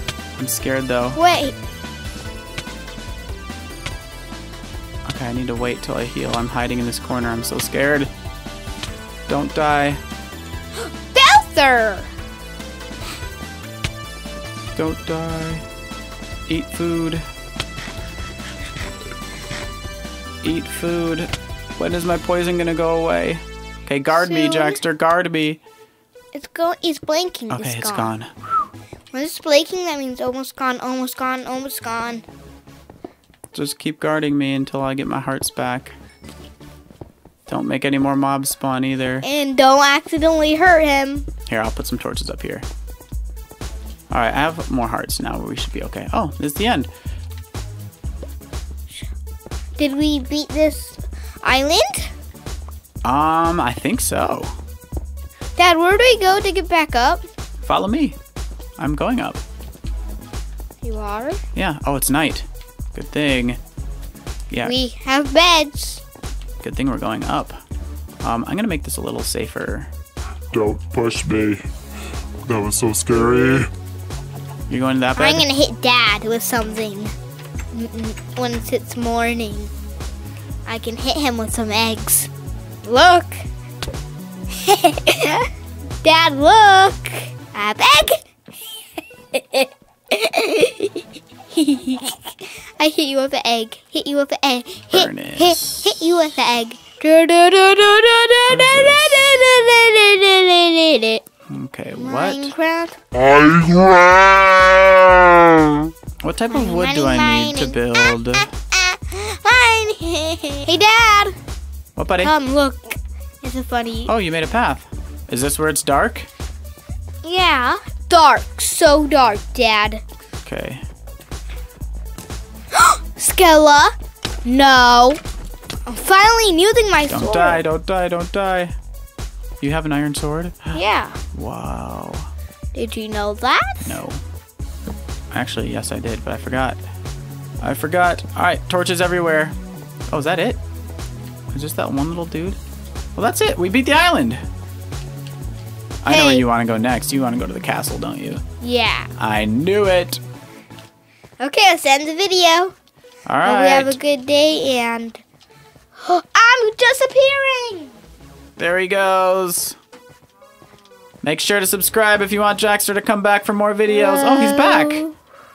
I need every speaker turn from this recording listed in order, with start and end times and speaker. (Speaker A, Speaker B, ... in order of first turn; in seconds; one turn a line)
Speaker A: 0.3-1.2
Speaker B: 1.1-1.6
Speaker A: 5.0-8.1
Speaker A: 9.3-10.0
Speaker B: 10.8-12.1
Speaker A: 14.8-15.6
Speaker A: 16.5-17.2
Speaker A: 20.4-25.6
Speaker B: 24.1-24.8
Speaker B: 26.3-28.1
Speaker A: 27.5-28.3
Speaker B: 29.1-32.2
Speaker A: 33.5-35.9
Speaker A: 37.5-39.2
Speaker B: 39.2-41.3
Speaker A: 41.5-42.6
Speaker A: 44.1-46.9
Speaker B: 49.8-52.1
Speaker A: 53.0-54.6
Speaker B: 55.5-57.2
Speaker A: 57.6-58.1
Speaker A: 58.8-59.4
Speaker B: 60.8-61.4
Speaker A: 61.5-63.6
Speaker B: 64.6-66.0
Speaker A: 66.6-67.5
Speaker A: 68.2-69.9
Speaker C: 70.5-71.6
Speaker C: 72.5-73.4
Speaker A: 73.2-73.6
Speaker A: 74.7-75.5
Speaker B: 75.2-77.1
Speaker B: 77.7-79.7
Speaker B: 80.7-82.3
Speaker B: 82.8-83.5
Speaker B: 84.6-85.5
Speaker B: 86.0-88.3
Speaker B: 89.3-101.2
Speaker A: 94.9-96.0
Speaker A: 98.5-99.3
Speaker A: 101.5-102.5
Speaker B: 101.9-103.0
Speaker C: 103.3-105.5
Speaker A: 106.2-108.5
Speaker B: 106.5-108.2
Speaker B: 108.7-111.3
Speaker A: 112.0-112.3
Speaker B: 112.2-114.1
Speaker A: 114.0-116.3
Speaker B: 117.2-120.0
Speaker A: 120.4-120.8
Speaker B: 122.7-125.2
Speaker B: 125.9-127.6
Speaker A: 127.1-128.7
Speaker A: 129.6-130.8
Speaker B: 130.7-131.2
Speaker A: 131.3-132.3
Speaker B: 132.7-133.9
Speaker A: 133.8-134.2
Speaker A: 135.3-136.8
Speaker A: 137.6-139.5
Speaker A: 140.1-140.6
Speaker A: 141.5-142.6
Speaker A: 143.2-144.4
Speaker A: 146.0-148.4
Speaker B: 146.1-146.4
Speaker B: 148.6-149.1
Speaker A: 149.2-150.2
Speaker B: 151.4-152.7
Speaker A: 153.2-154.0
Speaker B: 153.4-155.2
Speaker B: 156.0-157.9
Speaker A: 158.6-159.8
Speaker A: 161.2-165.1
Speaker B: 163.9-165.1